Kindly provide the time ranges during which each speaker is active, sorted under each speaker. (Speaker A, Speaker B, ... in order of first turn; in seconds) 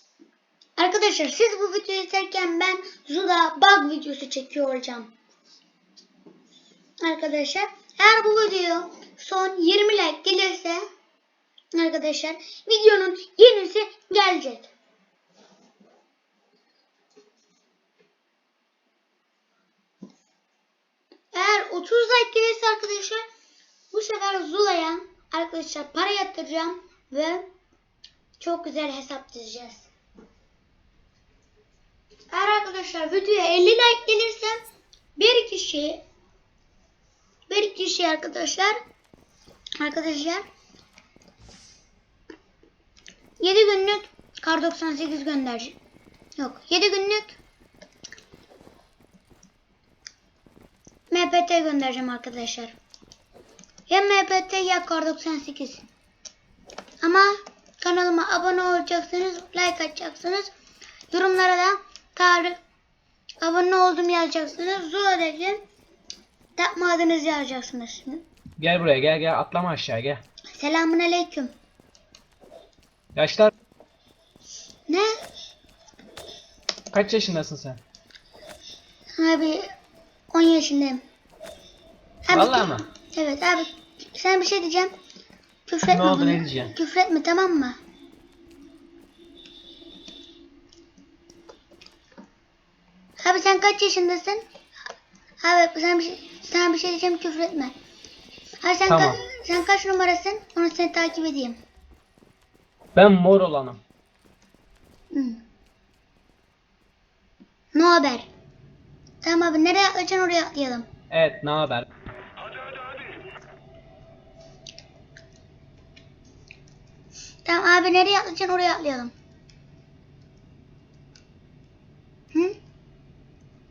Speaker A: 0.8-5.1, 7.0-10.8, 11.7-14.7, 21.3-23.2, 23.9-27.4, 28.4-29.9, 32.3-34.5, 35.1-36.0, 37.5-38.8, 39.8-40.4, 43.4-45.8, 46.4-47.4, 51.1-52.8, 53.9-55.9, 57.0-60.5, 61.1-62.6, 63.4-65.6, 66.6-68.2, 70.5-71.5, 79.2-79.7, 80.3-81.0, 82.2-84.9, 85.7-87.8, 93.2-94.4, 95.4-97.7, 98.6-101.6, 105.1-105.4, 107.7-108.3, 109.2-110.9, 117.4-119.1
Speaker B: 68.6-70.2, 73.1-73.5, 76.9-77.8, 82.3-82.9, 85.8-86.7, 98.9-99.2, 102.9-103.8, 111.1-111.9